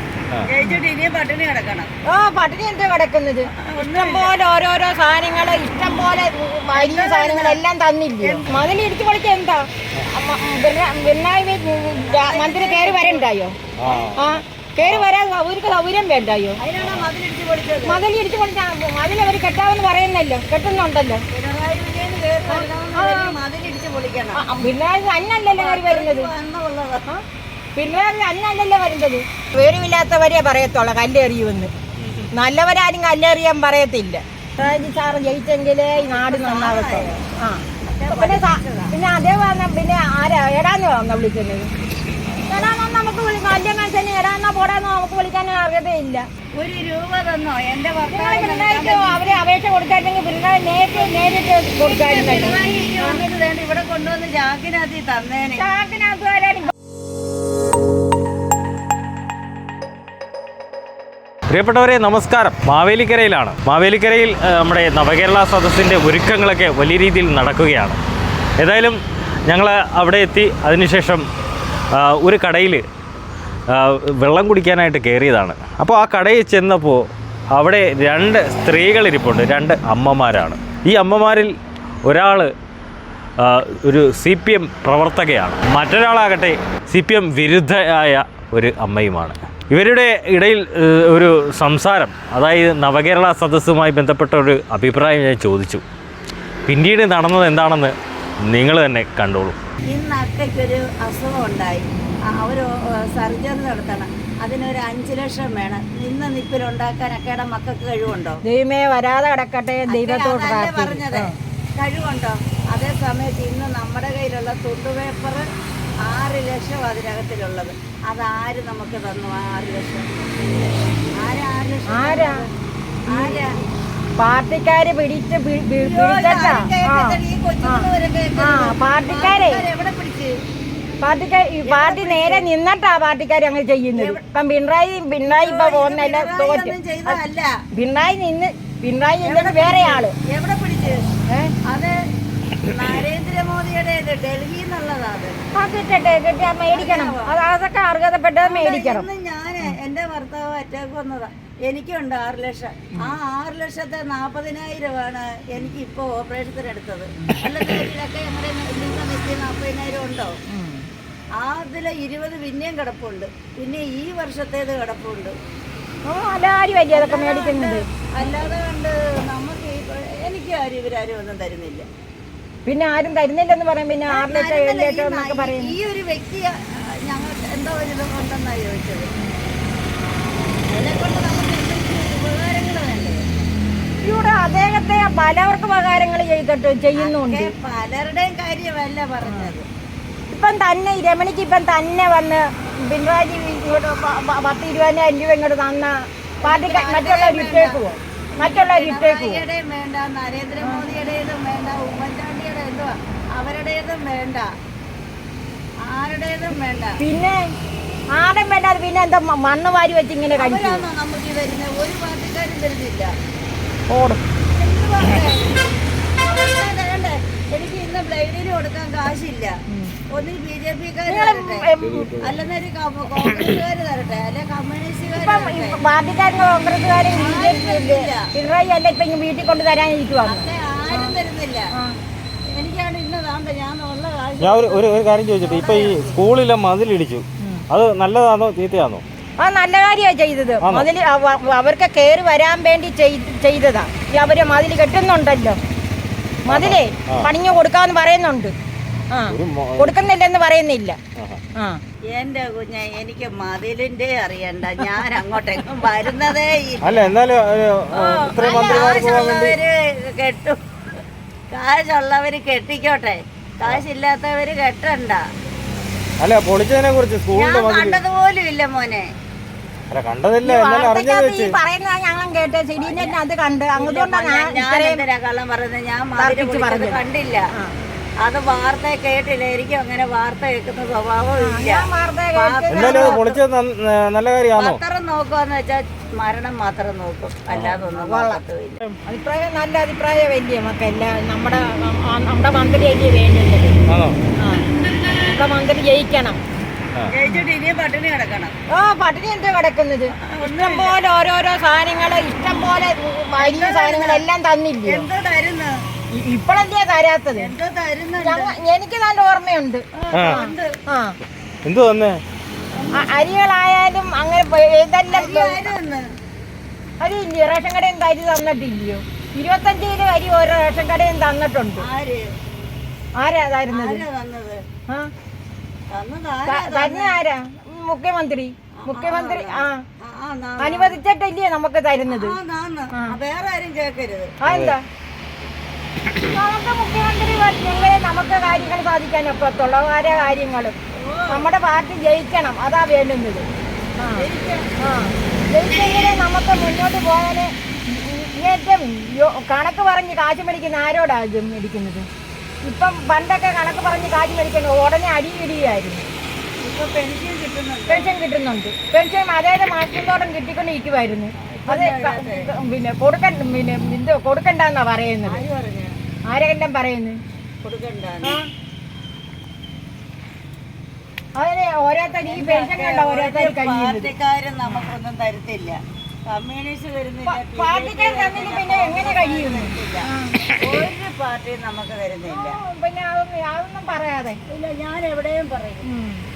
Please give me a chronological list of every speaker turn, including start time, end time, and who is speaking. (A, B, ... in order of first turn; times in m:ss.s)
0:00.4-0:01.9 A
0:02.1-0:13.5 B
0:03.6-0:04.3 A
0:06.7-0:07.6 A
0:12.0-0:13.2 A
0:13.8-0:14.2 C
0:13.8-0:14.4 A
0:14.2-0:16.6 B
0:14.8-0:15.1 C
0:16.6-0:18.0 A
0:17.8-0:21.2 B
0:21.3-0:24.4 A
0:22.5-0:23.3 B
0:24.4-0:26.3 B
0:25.6-0:27.0 A
0:27.8-0:31.7 B
0:32.0-0:32.3 C
0:32.3-0:41.7 B
0:36.0-0:37.2 A
0:37.9-0:38.9 A
0:42.5-0:46.2 B
0:46.6-0:49.4 A
0:48.1-0:53.2 B
0:51.8-0:55.6 A
0:55.6-0:56.7 B
1:01.5-1:08.0 C
1:08.6-1:11.2 C
1:11.9-1:12.8 C
1:13.7-1:21.5 C
1:22.0-1:22.5 C
1:23.4-1:35.8 C
1:36.7-1:37.9 C
1:38.4-1:39.6 C
1:39.9-1:48.4 A
1:48.4-1:51.3 B
1:49.9-1:55.4 A
1:56.0-2:00.1 A
2:01.2-2:02.5 A
2:01.9-2:02.4 B
2:03.1-2:03.4 B
2:03.1-2:03.5 A
2:04.2-2:07.9 B
2:05.7-2:10.3 A
2:08.4-2:09.6 B
2:11.0-2:17.2 B
2:11.6-2:12.5 A
2:14.0-2:14.2 A
2:15.3-2:17.5 A
2:17.7-2:20.1 B
2:19.2-2:21.0 A
2:21.7-2:21.9 A
2:22.6-2:25.4 A
2:25.6-2:29.0 B
2:26.7-2:27.3 A
2:28.4-2:40.4 A
2:40.5-2:40.8 B
2:41.4-2:45.3 A
2:46.1-2:47.8 B
2:46.9-2:51.8 A
2:52.6-2:55.7 B
2:54.1-2:56.5 A
2:57.1-2:59.1 A
3:00.7-3:03.2 A
3:04.0-3:07.5 B
3:06.9-3:09.6 A
3:10.3-3:19.4 B
3:16.4-3:17.8 A
3:18.4-3:24.5 A
3:20.6-3:20.9 B
3:25.8-3:27.0 A
3:27.0-3:27.4 B
3:28.1-3:30.8 B
3:30.4-3:33.1 A
3:33.9-3:34.2 B
3:34.5-3:35.6 A
3:36.1-3:39.5 A
3:40.1-3:45.8 A
3:41.1-3:42.2 B
3:45.2-3:51.1 B
3:47.1-3:48.3 A
3:50.2-3:51.7 A
3:52.5-3:54.8 A
3:54.4-3:59.0 C
3:55.4-3:56.2 A
3:59.4-4:05.6 B
4:00.6-4:00.9 C
4:06.4-4:08.5 B
4:06.5-4:07.3 C
4:09.1-4:11.0 B
4:09.3-4:09.9 C
4:12.1-4:17.1 A
4:16.8-4:19.6 C
4:17.9-4:20.6 A
4:18.4-4:19.0 B
4:21.5-4:25.2 A
4:26.2-4:28.0 C
4:27.3-4:29.0 A
4:29.9-4:31.6 C
4:30.4-4:35.0 B
4:32.6-4:33.2 A
4:33.8-4:37.4 A
4:36.2-4:37.0 B
4:38.2-4:43.4 A
4:41.4-4:43.1 B
4:42.7-4:44.8 C
4:44.6-4:48.8 A
4:47.5-4:47.8 C
4:47.9-4:48.4 B
4:49.1-4:53.7 B
4:53.9-4:54.2 C
4:54.4-4:54.7 B
4:54.6-4:55.4 A
4:55.3-4:56.4 B
4:57.1-4:58.5 A
4:58.7-5:05.0 B
5:00.2-5:01.0 A
5:03.4-5:04.2 A
5:04.8-5:05.7 A
5:06.1-5:07.5 B
5:07.4-5:08.5 A
5:08.2-5:11.1 B
5:10.0-5:10.7 A
5:11.6-5:12.2 C
5:12.8-5:13.1 A
5:12.9-5:15.6 B
5:15.1-5:16.0 A
5:17.0-5:21.8 B
5:21.8-5:22.2 A
5:23.2-5:24.0 B
5:23.7-5:24.6 A
5:25.9-5:27.2 A
5:26.5-5:29.8 B
5:28.8-5:31.0 A
5:30.6-5:32.4 B
5:32.1-5:34.3 A
5:34.4-5:34.8 B
5:34.5-5:34.7 C
5:36.2-5:40.7 B
5:37.6-5:38.8 A
5:41.0-5:41.4 A
5:41.3-5:43.4 B
5:44.0-5:44.3 B
5:44.2-5:44.7 A
5:44.8-5:52.0 B
5:45.7-5:46.2 A
5:52.6-5:56.0 B
5:56.6-5:58.1 A
5:57.9-6:05.4 B
6:01.5-6:02.5 A
6:05.2-6:06.0 A
6:06.3-6:07.2 B
6:07.6-6:08.4 A
6:11.4-6:14.1 B
6:12.2-6:15.8 A
6:14.7-6:14.9 B
6:16.3-6:20.1 A
6:17.3-6:20.6 B
6:20.6-6:22.6 A
6:22.3-6:24.4 B
6:24.5-6:25.8 A
6:25.8-6:26.2 B